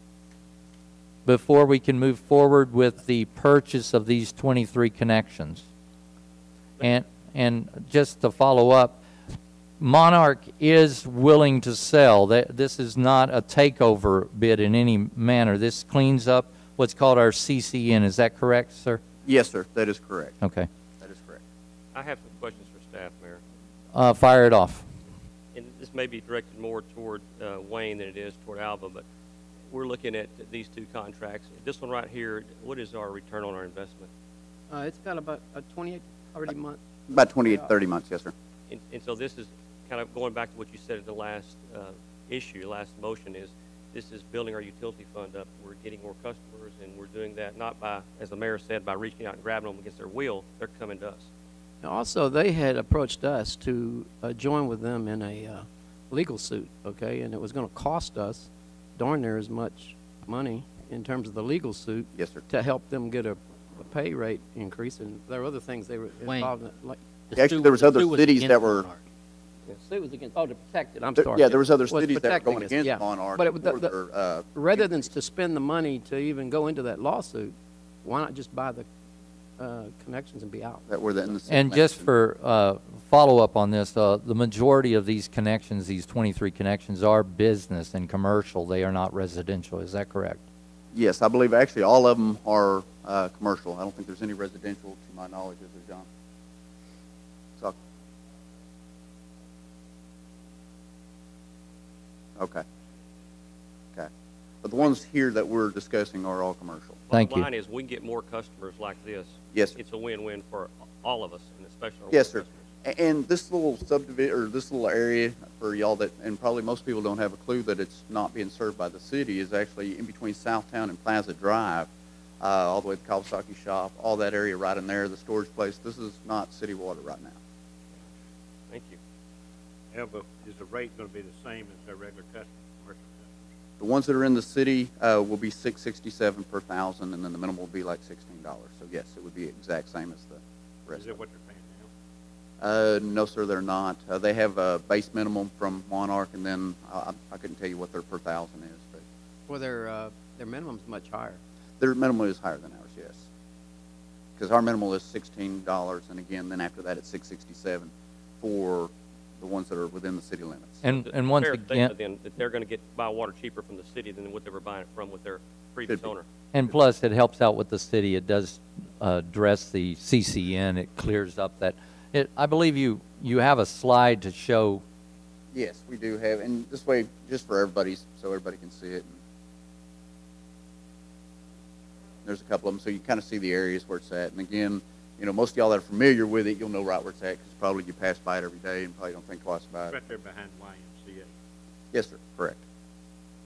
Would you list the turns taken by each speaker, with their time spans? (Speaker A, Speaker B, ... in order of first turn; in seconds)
Speaker A: 1.2-5.6, 6.8-9.0, 9.8-19.0, 20.4-20.7, 23.9-24.9, 81.5-90.4, 107.1-107.5, 160.8-161.9, 166.5-174.8
Speaker B: 19.2-20.4, 21.0-21.4, 37.1-38.3, 62.1-62.4, 67.3-68.9, 71.2-75.1, 80.9-82.1, 90.9-96.1, 102.4-102.6, 104.6-107.0, 112.1-121.9, 122.4-127.3, 133.8-141.2, 142.6-149.0, 151.8-153.2, 154.4-160.8, 175.5-179.2, 182.2-189.9, 191.9-192.6
Speaker C: 21.9-23.4, 25.5-29.0, 29.7-34.1, 38.7-51.3, 107.1-112.6, 128.7-129.0, 160.9-166.2
Speaker D: 34.7-36.8, 37.4-37.7, 51.8-67.0, 69.7-73.9, 74.5-78.9, 79.6-80.8, 149.5-151.4
Speaker E: 66.2-66.5, 67.3-69.0
Speaker F: 129.9-133.5, 140.9-141.9, 189.9-191.3